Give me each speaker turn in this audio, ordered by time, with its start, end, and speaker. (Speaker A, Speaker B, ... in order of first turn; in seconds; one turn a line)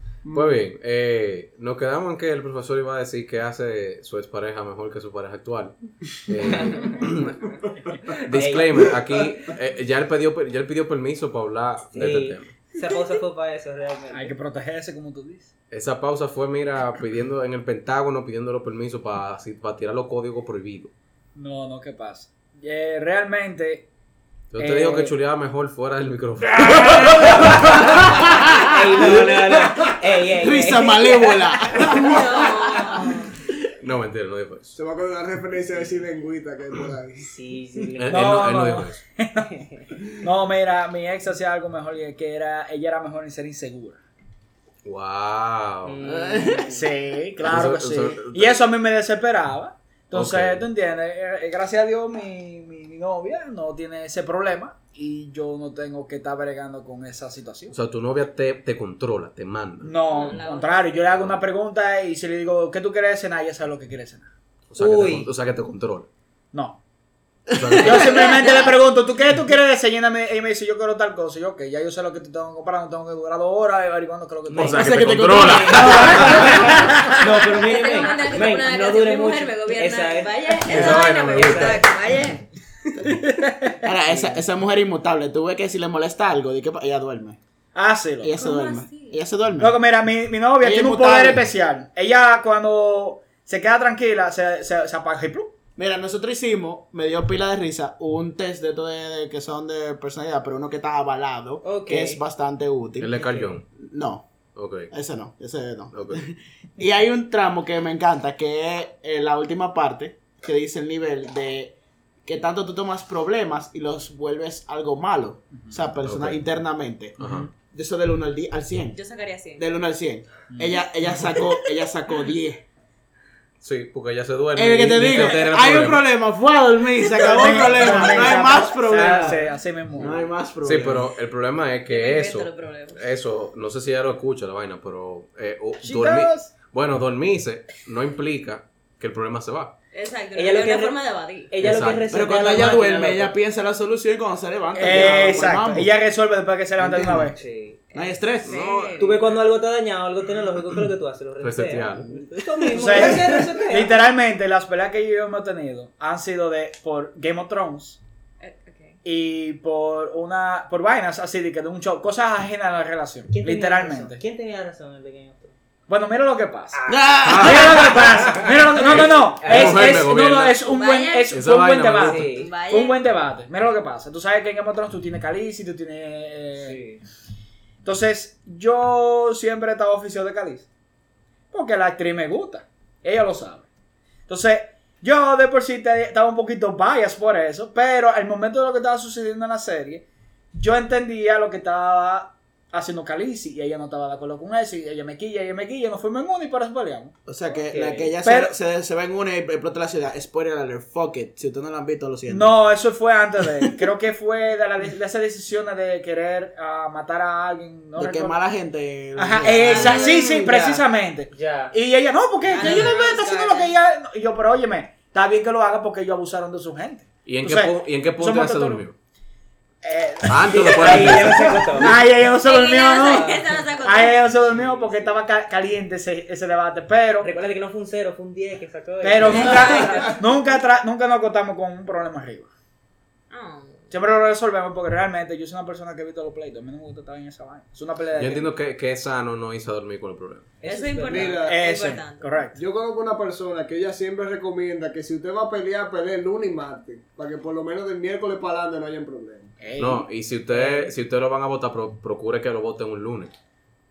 Speaker A: 0.2-0.6
Speaker B: 0.3-7.3
Speaker A: 7.9-8.1
Speaker C: 8.1-8.9
Speaker B: 8.2-12.5
Speaker C: 11.9-14.3
Speaker D: 14.1-15.5
Speaker B: 15.7-20.9
Speaker D: 21.4-23.9
Speaker B: 24.5-28.3
Speaker D: 24.6-25.1
Speaker E: 26.6-32.9
Speaker C: 27.2-31.8
Speaker F: 31.9-33.3
Speaker B: 33.8-34.8
Speaker A: 34.8-37.3
Speaker C: 37.2-38.6
Speaker B: 38.0-39.0
Speaker D: 38.1-39.5
Speaker D: 40.2-44.0
Speaker B: 44.8-46.0
Speaker C: 45.8-46.9
Speaker E: 46.0-46.7
Speaker D: 46.7-57.7
Speaker B: 47.4-48.6
Speaker B: 50.1-50.6
Speaker B: 57.7-59.9
Speaker D: 59.8-64.3
Speaker F: 60.0-61.0
Speaker B: 61.1-61.4
Speaker B: 64.7-66.1
Speaker C: 64.8-65.3
Speaker D: 66.5-66.8
Speaker E: 67.5-68.3
Speaker B: 67.5-68.3
Speaker D: 67.8-75.1
Speaker B: 74.5-76.5
Speaker E: 74.6-76.9
Speaker C: 75.3-81.8
Speaker D: 75.7-77.2
Speaker F: 77.5-82.4
Speaker B: 80.7-81.8
Speaker D: 83.0-83.8
Speaker E: 83.8-87.4
Speaker C: 84.1-84.4
Speaker D: 87.7-88.3
Speaker E: 88.2-89.8
Speaker F: 88.4-89.2
Speaker D: 89.6-95.5
Speaker E: 90.6-91.4
Speaker E: 95.8-103.1
Speaker C: 101.6-102.2
Speaker B: 103.0-103.6
Speaker E: 103.7-104.2
Speaker B: 104.5-104.9
Speaker E: 104.9-111.7
Speaker B: 105.9-106.2
Speaker E: 112.2-119.0
Speaker B: 116.0-116.4
Speaker B: 117.2-117.5
Speaker D: 117.2-117.5
Speaker F: 118.9-119.6
Speaker E: 119.6-122.6
Speaker D: 120.5-120.8
Speaker B: 123.6-126.0
Speaker E: 124.5-131.1
Speaker D: 127.1-130.3
Speaker C: 127.8-128.4
Speaker B: 130.6-139.7
Speaker F: 131.9-133.0
Speaker D: 135.8-136.5
Speaker F: 139.9-141.6
Speaker C: 140.3-141.0
Speaker C: 141.5-143.3
Speaker B: 141.6-142.1
Speaker E: 142.1-145.9
Speaker D: 144.7-147.4
Speaker E: 146.8-147.3
Speaker C: 147.3-147.8
Speaker F: 147.9-149.2
Speaker E: 147.9-148.6
Speaker B: 148.4-149.2
Speaker C: 149.0-154.0
Speaker B: 151.4-152.1
Speaker E: 152.3-153.0
Speaker D: 152.7-158.0
Speaker F: 158.4-159.0
Speaker D: 159.0-164.2
Speaker C: 163.3-165.5
Speaker D: 165.9-176.8
Speaker C: 166.7-167.1
Speaker E: 166.9-168.0
Speaker B: 167.2-167.8
Speaker C: 168.2-170.0
Speaker B: 168.8-170.6
Speaker F: 170.6-171.4
Speaker B: 171.3-172.3
Speaker C: 171.9-172.5
Speaker F: 172.3-173.0
Speaker C: 176.6-177.0
Speaker D: 177.8-180.7
Speaker D: 181.5-183.7
Speaker D: 184.3-197.2
Speaker E: 197.3-202.6
Speaker C: 197.6-198.1
Speaker D: 198.2-198.5
Speaker D: 202.3-208.4
Speaker E: 207.9-210.2
Speaker D: 209.1-218.8
Speaker F: 209.6-210.3
Speaker C: 209.7-211.7
Speaker F: 212.5-213.7
Speaker C: 212.5-213.0
Speaker B: 217.2-218.9
Speaker D: 219.8-227.3
Speaker B: 220.2-221.6
Speaker C: 220.6-222.0
Speaker F: 222.4-224.2
Speaker C: 223.0-223.7
Speaker C: 224.5-225.1
Speaker C: 227.2-230.1
Speaker D: 229.0-232.5
Speaker F: 229.2-230.1
Speaker F: 233.3-233.9
Speaker D: 233.9-238.5
Speaker B: 238.2-240.5
Speaker C: 240.6-241.4
Speaker F: 240.6-242.5
Speaker A: 241.1-241.6
Speaker D: 241.4-242.6
Speaker A: 242.5-249.5
Speaker D: 249.6-250.8
Speaker B: 249.8-253.3